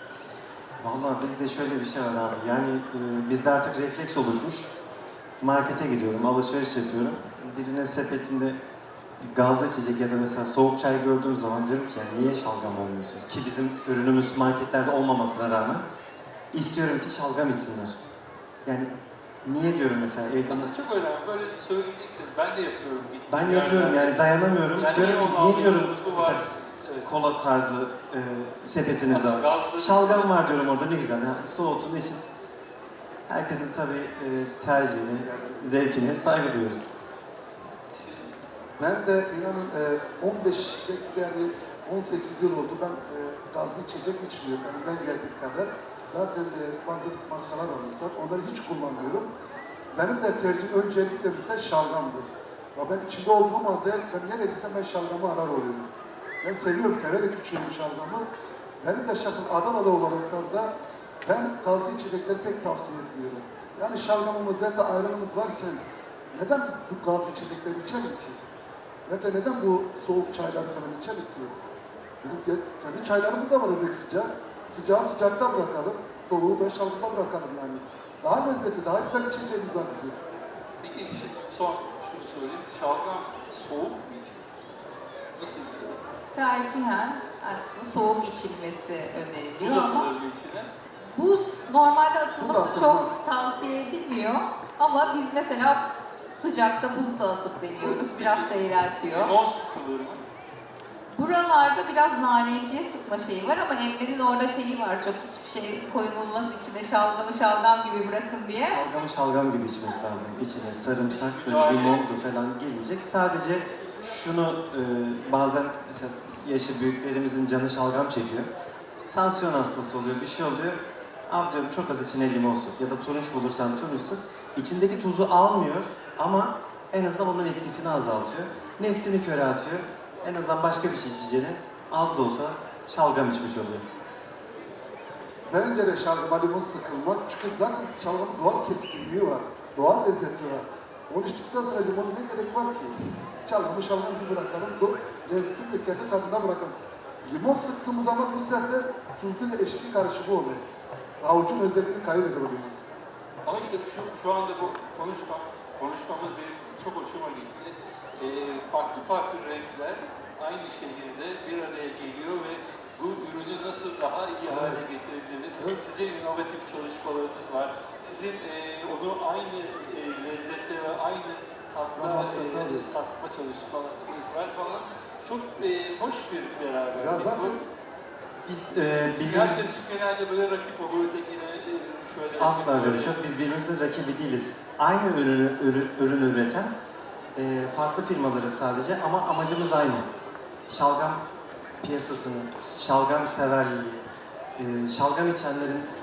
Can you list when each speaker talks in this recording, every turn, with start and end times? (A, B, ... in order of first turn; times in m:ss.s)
0:00.8-0:04.7 A
0:05.4-0:08.6 A
0:09.2-0:15.8 A
0:16.5-0:18.0 A
0:18.6-0:18.9 A
0:19.4-0:20.7 A
0:20.5-0:24.2 B
0:23.3-0:26.5 A
0:24.8-0:27.1 B
0:27.0-0:32.2 A
0:29.1-0:30.3 B
0:33.3-0:36.9 A
0:35.3-0:35.8 C
0:37.9-0:38.3 B
0:38.8-0:49.3 C
0:49.9-0:55.8 C
0:56.4-0:58.3 C
0:58.8-1:00.7 C
1:01.2-1:08.4 C
1:09.1-1:11.5 C
1:12.2-1:20.2 C
1:20.8-1:24.7 B
1:25.4-1:26.0 B
1:26.3-1:30.1 D
1:29.6-1:30.7 B
1:31.1-1:39.3 D
1:32.4-1:33.2 C
1:37.8-1:40.2 B
1:41.1-1:48.8 D
1:48.5-1:58.5 A
1:51.1-1:52.0 B
1:59.1-2:13.8 A
2:15.5-2:30.6 C
2:31.2-2:32.7 C
2:33.4-2:57.6 B
2:44.5-2:44.8 C
2:52.0-2:52.8 C
2:57.0-2:57.6 C
2:58.4-2:59.7 A
2:59.1-3:03.2 B
3:02.2-3:06.7 A
3:07.3-3:10.0 A
3:10.7-3:11.2 A
3:11.8-3:14.0 A
3:14.6-3:15.9 A